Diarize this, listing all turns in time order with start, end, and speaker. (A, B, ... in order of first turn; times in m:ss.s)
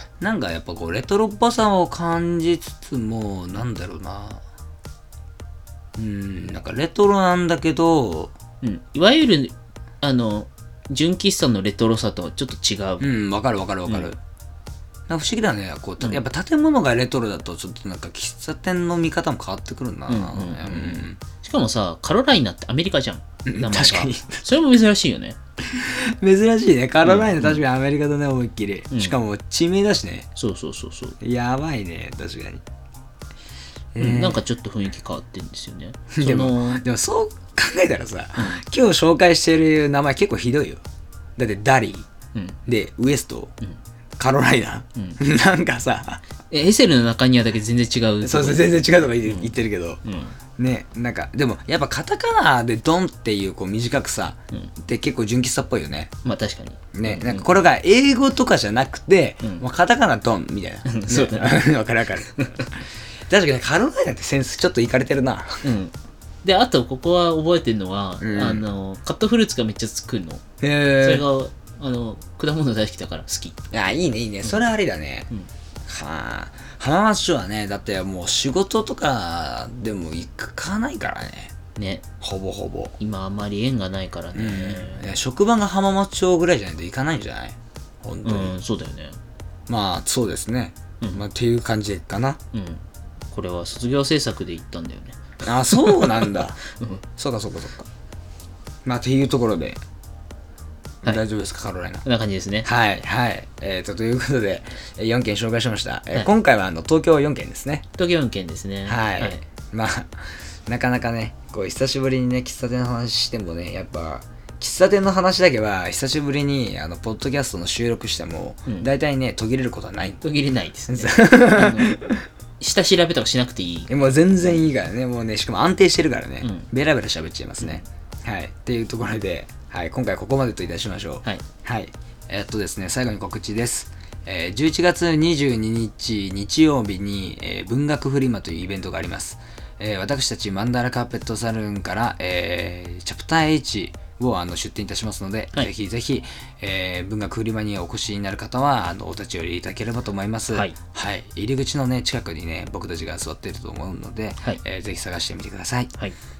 0:00.2-0:04.4 A
0:06.0-0:08.3 A
0:08.6-0:13.1 B
0:13.0-0:14.2 A
0:13.9-0:14.1 B
0:15.1-0:21.2 A
0:20.1-0:25.4 B
0:23.4-0:24.4 A
0:25.7-0:30.3 A
0:27.0-0:27.6 B
0:30.4-0:31.2 B
0:31.2-0:32.6 A
0:33.9-0:34.4 A
0:34.0-0:36.8 B
0:36.1-0:40.8 A
0:41.4-0:42.1 A
0:42.7-0:43.5 A
0:44.2-0:46.2 A
0:46.5-0:49.5 B
0:48.2-0:50.0 A
0:50.0-0:50.4 B
0:50.6-0:56.1 A
0:56.2-0:57.4 B
0:56.9-1:02.4 A
1:00.8-1:01.7 B
1:02.3-1:02.6 B
1:03.3-1:05.7 A
1:05.6-1:10.4 B
1:08.2-1:08.6 A
1:10.6-1:11.2 A
1:11.0-1:13.6 B
1:13.7-1:15.3 A
1:15.8-1:21.5 A
1:21.7-1:22.0 B
1:22.2-1:22.9 A
1:23.0-1:25.2 B
1:24.3-1:28.5 A
1:28.2-1:29.2 B
1:29.7-1:32.4 A
1:32.5-1:37.0 B
1:35.4-1:36.6 A
1:37.2-1:37.9 A
1:38.8-1:39.8 A
1:41.0-1:42.0 A
1:42.0-1:42.7 B
1:42.6-1:47.8 A
1:48.0-1:49.4 B
1:48.9-2:00.2 A
2:00.2-2:01.9 B
2:00.9-2:02.2 A
2:02.6-2:03.9 B
2:03.9-2:35.9 A
2:06.4-2:06.7 B